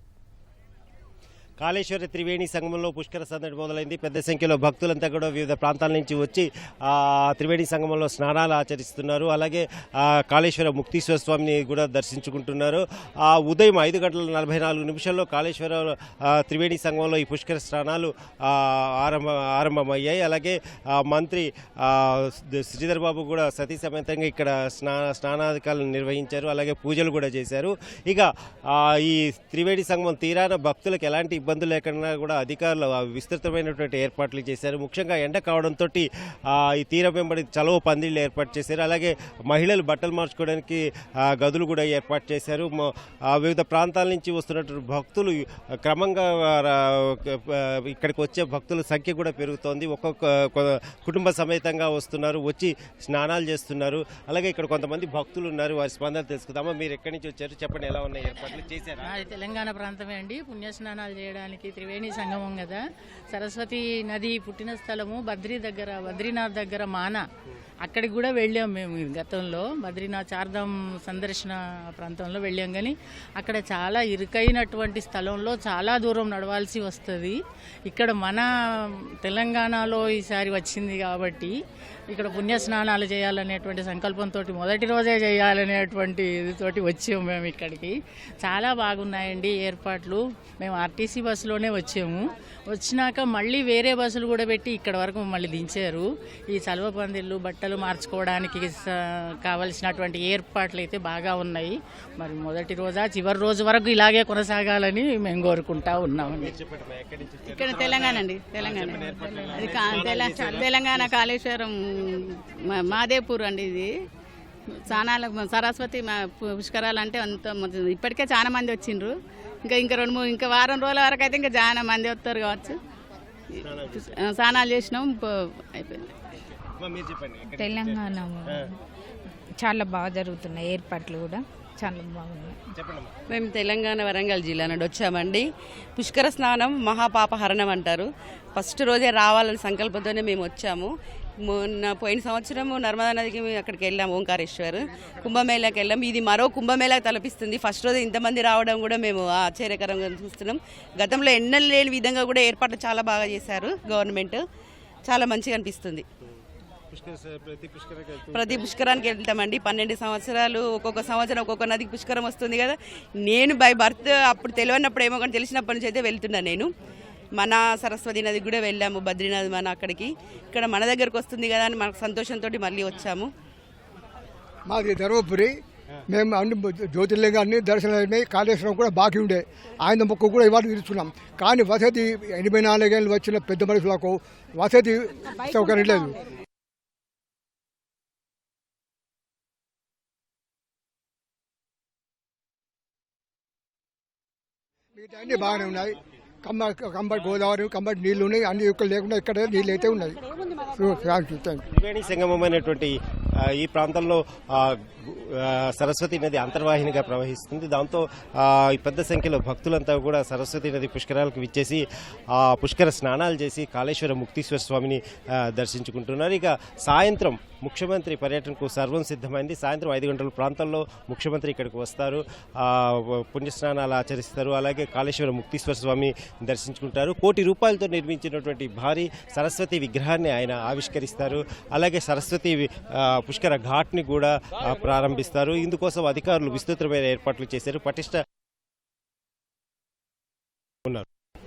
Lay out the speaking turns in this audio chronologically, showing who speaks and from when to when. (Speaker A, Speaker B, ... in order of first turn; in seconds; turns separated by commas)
Speaker A: 1.6-59.2, Speaker B: 59.0-67.2, Speaker B: 67.8-77.3, Speaker B: 77.9-78.5, Speaker B: 79.2-81.5, Speaker B: 82.1-106.5, Speaker A: 106.3-111.2, Speaker C: 107.5-109.0, Speaker C: 109.6-113.9, Speaker C: 114.9-122.8, Speaker A: 123.6-124.2, Speaker C: 124.0-126.1, Speaker A: 126.8-128.8, Speaker D: 127.6-128.4, Speaker D: 129.6-132.6, Speaker A: 132.8-133.1, Speaker E: 133.3-140.9, Speaker E: 141.4-154.4, Speaker E: 155.1-156.0, Speaker A: 156.9-158.7, Speaker E: 158.3-166.7, Speaker E: 167.4-173.3, Speaker F: 174.7-175.5, Speaker F: 176.1-186.2, Speaker F: 195.0-200.2, Speaker F: 200.7-201.6, Speaker A: 201.8-238.2